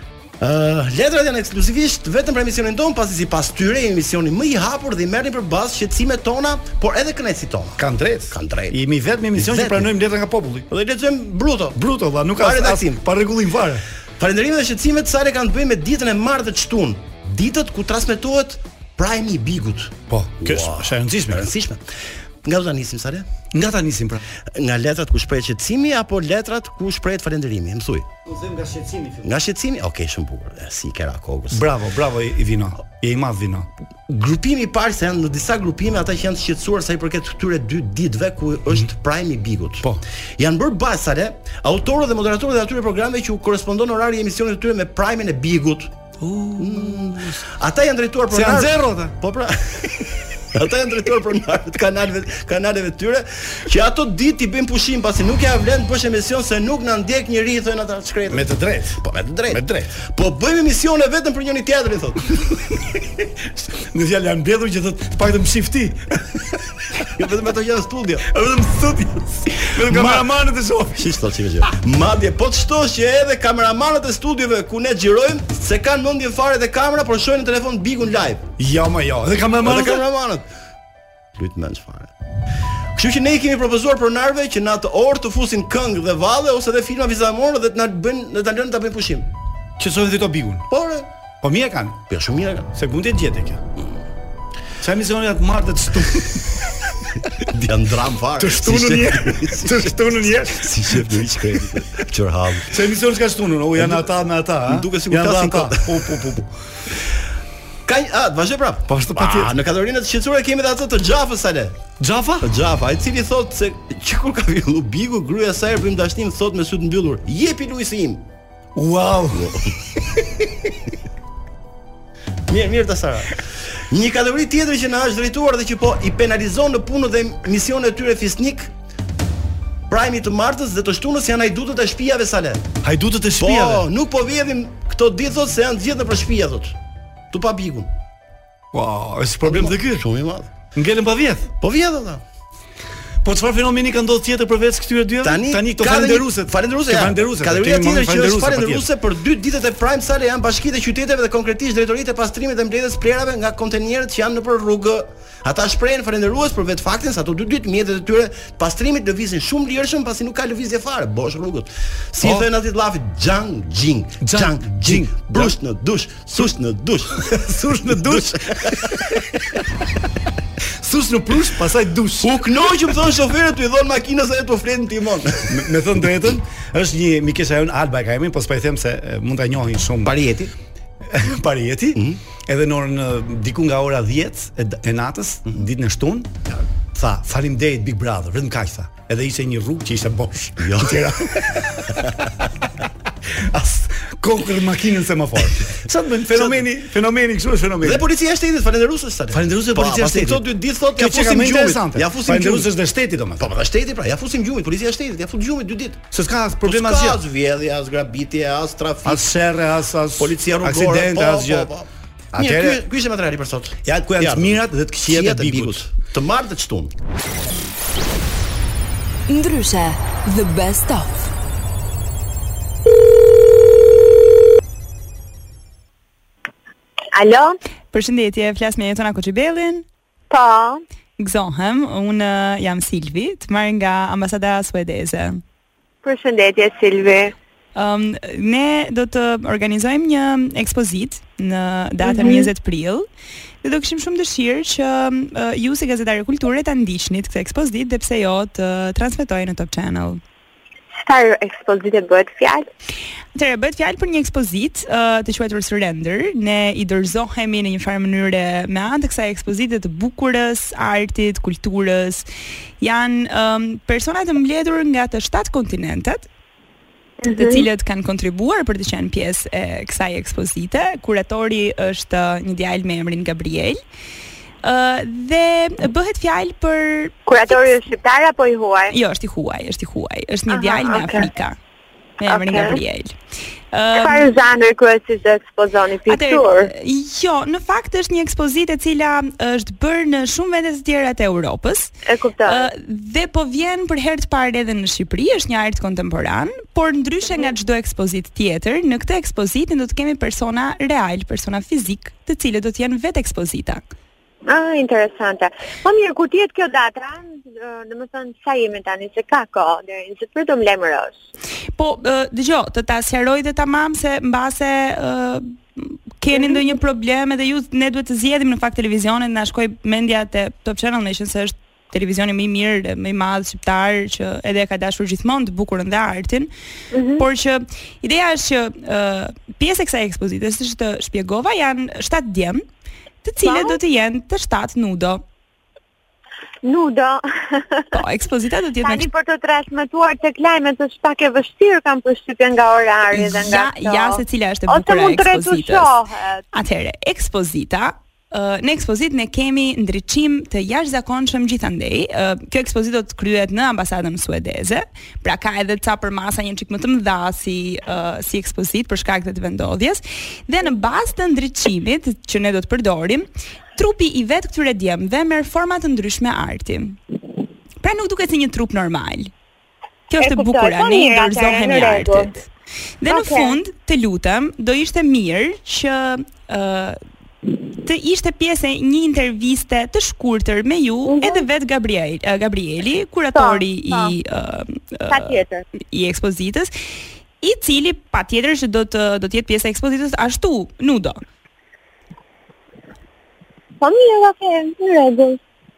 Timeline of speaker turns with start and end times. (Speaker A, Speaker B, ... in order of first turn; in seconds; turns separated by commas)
Speaker A: 0.4-8.8, Speaker B: 7.8-10.7, Speaker A: 9.3-9.9, Speaker A: 10.7-11.8, Speaker B: 11.8-13.8, Speaker A: 12.4-13.0, Speaker A: 14.2-21.9, Speaker B: 20.1-21.4, Speaker A: 22.4-23.3, Speaker B: 23.5-24.2, Speaker A: 24.5-28.1, Speaker B: 28.3-29.3, Speaker A: 29.2-31.7, Speaker B: 31.5-33.7, Speaker A: 34.1-45.9, Speaker B: 46.2-47.5, Speaker A: 46.6-62.9, Speaker B: 48.3-49.1, Speaker B: 58.3-59.0, Speaker B: 59.5-59.9, Speaker B: 63.9-66.4, Speaker A: 67.0-68.3, Speaker B: 68.3-71.1, Speaker A: 69.6-70.3, Speaker A: 71.0-78.5, Speaker B: 78.6-80.0, Speaker A: 79.6-80.5, Speaker A: 81.4-82.1, Speaker A: 83.0-89.3, Speaker B: 89.8-90.7, Speaker A: 90.7-91.1, Speaker B: 91.4-92.0, Speaker A: 92.1-92.7, Speaker B: 92.8-93.6, Speaker B: 94.8-96.7, Speaker A: 97.4-102.8, Speaker B: 98.4-101.1, Speaker B: 102.7-106.5, Speaker A: 103.8-104.1, Speaker A: 104.7-106.1, Speaker A: 107.9-111.8, Speaker B: 108.9-109.5, Speaker B: 112.0-112.5, Speaker A: 112.4-118.3, Speaker B: 118.8-119.5, Speaker A: 119.3-119.7, Speaker A: 122.5-128.7, Speaker A: 129.9-132.7, Speaker B: 132.8-133.8, Speaker A: 133.4-136.8, Speaker A: 137.3-137.9, Speaker B: 138.7-140.0, Speaker A: 139.4-140.5, Speaker B: 140.7-141.5, Speaker A: 141.6-142.2, Speaker B: 143.2-148.9, Speaker A: 145.2-169.3, Speaker B: 162.2-162.5, Speaker B: 164.2-165.5, Speaker B: 167.2-169.2, Speaker B: 170.8-172.3, Speaker A: 172.2-175.8, Speaker B: 175.5-180.2, Speaker A: 180.0-180.5, Speaker B: 181.1-186.3, Speaker B: 186.9-192.1, Speaker A: 190.6-191.1, Speaker B: 193.5-198.0, Speaker A: 196.3-196.7, Speaker A: 197.8-202.7, Speaker B: 199.3-200.4, Speaker B: 201.0-203.4, Speaker A: 203.4-206.1, Speaker B: 206.1-207.2, Speaker A: 206.6-209.3, Speaker B: 209.1-211.7, Speaker A: 210.2-216.9, Speaker B: 212.3-212.8, Speaker B: 213.8-215.8, Speaker C: 219.3-221.2, Speaker D: 227.1-227.6, Speaker E: 227.9-229.8, Speaker D: 230.3-230.8, Speaker E: 231.2-235.4, Speaker D: 236.0-237.3, Speaker E: 237.8-243.1, Speaker D: 242.0-242.5, Speaker E: 243.6-250.2, Speaker D: 251.0-252.7, Speaker E: 253.3-262.3, Speaker E: 262.8-266.3, Speaker D: 267.2-267.6, Speaker E: 267.3-273.8, Speaker E: 274.6-277.1, Speaker D: 277.3-278.9, Speaker E: 278.9-281.6, Speaker D: 280.5-281.3, Speaker E: 282.2-283.1, Speaker D: 282.3-282.8, Speaker E: 283.7-284.3, Speaker D: 284.0-286.7, Speaker E: 286.1-291.9, Speaker D: 292.1-292.7, Speaker E: 292.5-303.8, Speaker D: 304.5-311.2, Speaker E: 311.8-326.5, Speaker D: 316.3-316.7, Speaker D: 326.9-327.2, Speaker E: 327.2-332.6, Speaker E: 333.2-335.2, Speaker D: 333.4-333.8, Speaker D: 336.6-337.9, Speaker E: 337.9-339.1, Speaker D: 338.8-346.4, Speaker E: 343.1-345.9, Speaker E: 346.5-367.0, Speaker E: 367.8-369.3, Speaker E: 370.1-372.5, Speaker D: 370.2-372.3, Speaker E: 373.0-377.0, Speaker D: 373.1-373.6, Speaker E: 377.8-386.7, Speaker D: 381.1-381.5, Speaker D: 383.4-384.1, Speaker D: 385.1-385.6, Speaker E: 387.4-391.2, Speaker D: 393.8-395.4